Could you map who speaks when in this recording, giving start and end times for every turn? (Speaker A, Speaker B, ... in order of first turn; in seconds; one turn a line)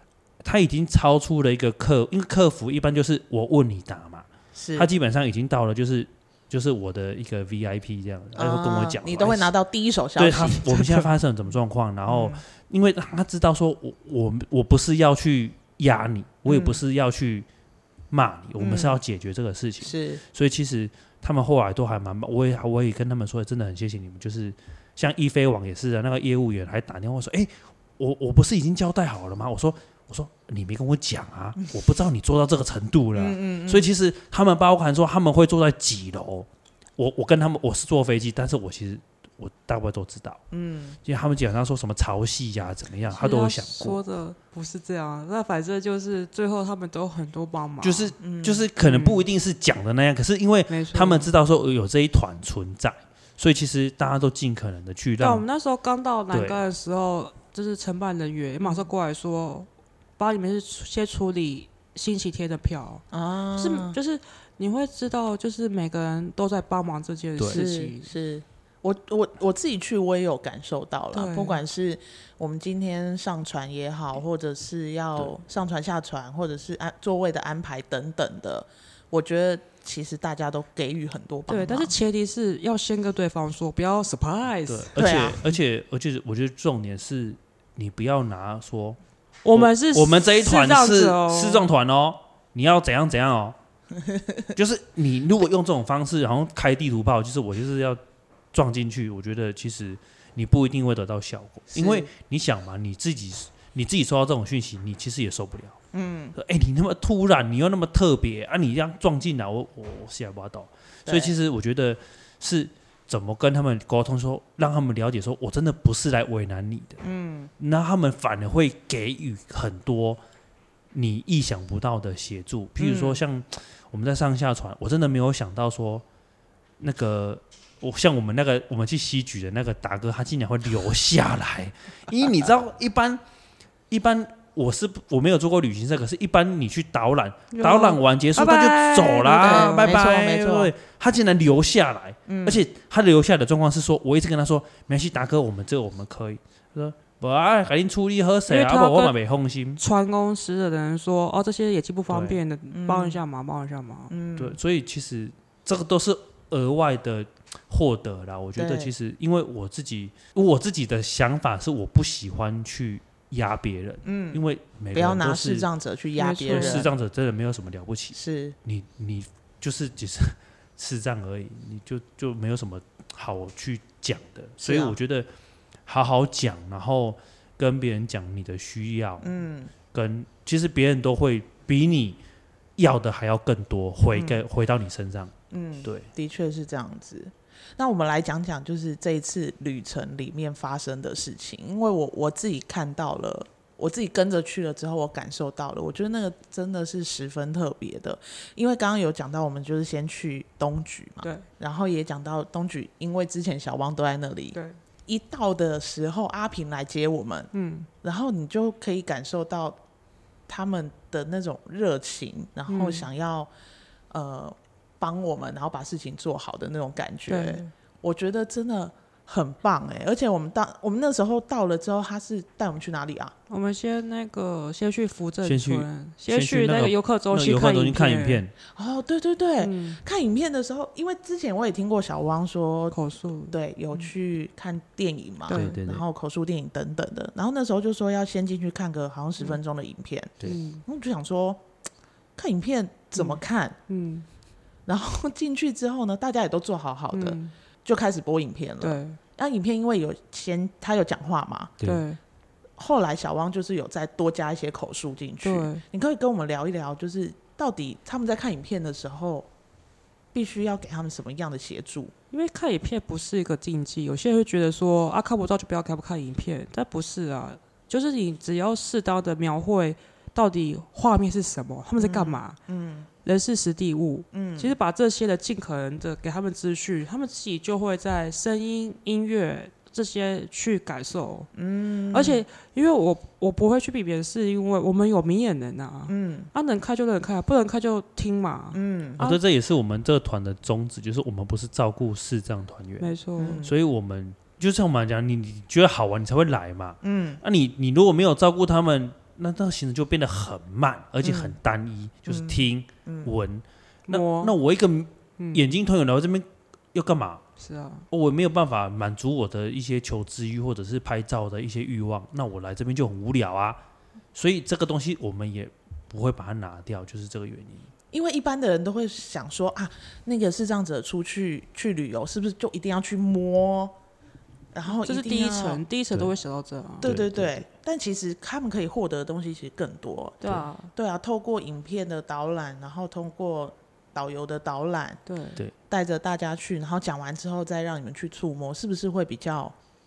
Speaker A: 0.4-9.5
Speaker B: 4.5-4.9
Speaker B: 8.3-11.1
Speaker A: 10.2-17.5
Speaker B: 12.1-12.4
Speaker B: 16.4-16.8
Speaker A: 18.1-40.4
Speaker B: 18.6-19.0
Speaker B: 19.8-20.2
Speaker B: 33.1-33.9
Speaker B: 40.5-41.0
Speaker A: 41.0-44.0
Speaker C: 43.1-48.1
Speaker A: 47.8-55.5
Speaker B: 48.2-48.7
Speaker C: 48.8-49.2
Speaker C: 50.7-51.3
Speaker C: 55.2-68.1
Speaker A: 56.3-56.6
Speaker B: 58.6-58.9
Speaker B: 63.1-64.0
Speaker A: 67.4-67.6
Speaker B: 67.5-81.9
Speaker C: 71.1-71.6
Speaker C: 81.5-84.9
Speaker A: 84.7-89.0
Speaker B: 85.0-85.4
Speaker C: 89.4-91.7
Speaker A: 89.5-93.5
Speaker A: 94.5-98.0
Speaker A: 98.5-105.8
Speaker B: 101.7-102.1
Speaker B: 105.9-106.3
Speaker A: 106.3-117.0
Speaker B: 111.0-111.3
Speaker B: 117.0-117.5
Speaker A: 117.6-120.2
Speaker A: 120.9-126.0
Speaker B: 122.8-123.2
Speaker A: 126.8-133.2
Speaker A: 133.9-149.8
Speaker C: 137.5-140.0
Speaker B: 139.4-140.7
Speaker B: 142.3-142.6
Speaker C: 148.5-149.1
Speaker C: 149.8-154.1
Speaker A: 152.1-152.4
Speaker B: 152.7-153.2
Speaker B: 154.1-154.6
Speaker A: 154.3-165.7
Speaker B: 158.6-158.9
Speaker B: 164.0-164.4
Speaker B: 164.9-166.9
Speaker C: 166.2-166.8
Speaker A: 166.5-175.3
Speaker B: 168.1-168.6
Speaker B: 174.6-175.0
Speaker A: 175.8-179.3
Speaker B: 179.2-179.7
Speaker A: 179.9-182.2
Speaker A: 182.8-186.1
Speaker B: 184.1-184.4
Speaker B: 185.5-207.5
Speaker C: 207.5-207.9
Speaker B: 208.0-209.8
Speaker B: 210.5-213.5
Speaker C: 212.7-213.1
Speaker B: 214.1-223.3
Speaker C: 217.3-217.7
Speaker C: 223.5-228.4
Speaker A: 225.4-228.5
Speaker B: 228.7-232.9
Speaker C: 229.6-230.0
Speaker C: 232.9-234.1
Speaker B: 233.5-241.6
Speaker C: 235.5-235.8
Speaker A: 235.5-236.0
Speaker C: 240.4-240.8
Speaker B: 242.4-243.8
Speaker C: 243.2-244.2
Speaker B: 244.9-251.7
Speaker C: 247.1-247.5
Speaker C: 248.8-249.2
Speaker A: 251.8-252.0
Speaker C: 251.8-252.2
Speaker B: 252.8-259.5
Speaker C: 255.4-255.8
Speaker B: 260.3-262.1
Speaker C: 262.3-272.6
Speaker B: 272.0-273.1
Speaker C: 273.2-281.5
Speaker B: 274.3-274.7
Speaker B: 281.6-282.4
Speaker C: 282.1-289.4
Speaker B: 286.1-286.5
Speaker B: 288.7-289.2
Speaker A: 289.2-307.4
Speaker C: 293.0-293.6
Speaker B: 293.4-293.7
Speaker B: 297.0-297.4
Speaker B: 301.2-301.5
Speaker B: 302.3-303.3
Speaker C: 304.1-304.5
Speaker C: 305.4-305.7
Speaker C: 307.6-308.1
Speaker A: 308.1-313.8
Speaker A: 314.3-317.9
Speaker B: 318.1-323.9
Speaker B: 324.7-325.8
Speaker C: 324.9-327.1
Speaker A: 327.0-327.6
Speaker B: 327.0-335.2
Speaker C: 330.4-330.9
Speaker C: 335.2-335.6
Speaker B: 335.9-339.7